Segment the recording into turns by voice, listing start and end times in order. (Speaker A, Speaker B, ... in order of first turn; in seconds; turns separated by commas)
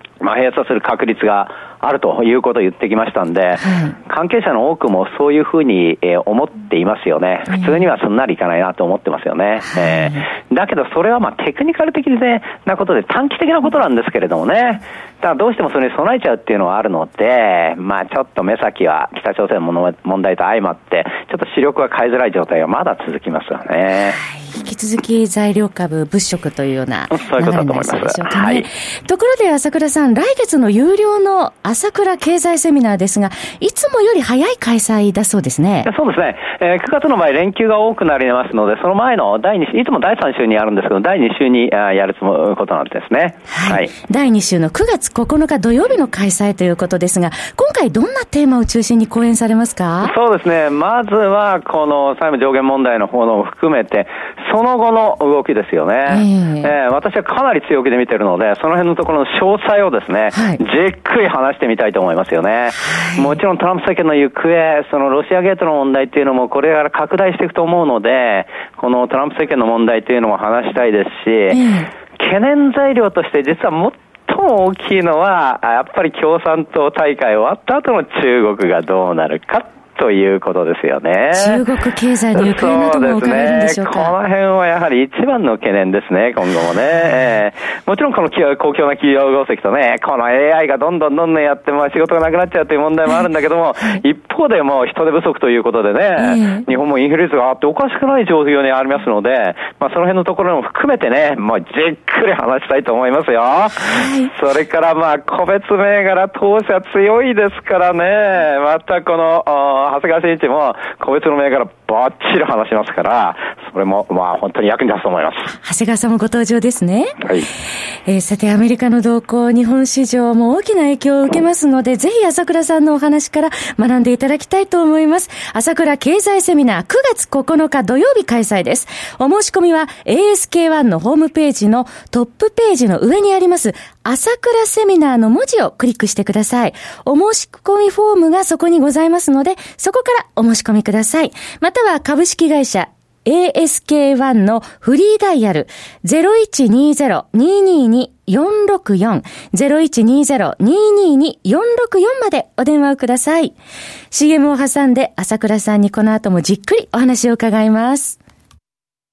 Speaker A: 0.2-24.2, Speaker B: 3.6-4.0, Speaker B: 9.6-10.2, Speaker B: 24.2-35.9, Speaker A: 27.1-28.6, Speaker A: 35.9-43.9, Speaker B: 43.5-50.1, Speaker A: 50.0-71.6, Speaker B: 56.1-56.7, Speaker B: 60.3-60.6, Speaker B: 62.8-63.4, Speaker B: 71.5-71.9, Speaker A: 72.2-81.6, Speaker B: 81.3-84.1, Speaker A: 82.4-115.5, Speaker B: 96.2-96.7, Speaker B: 103.8-104.3, Speaker B: 115.5-117.2, Speaker B: 118.1-153.5, Speaker B: 154.1-158.2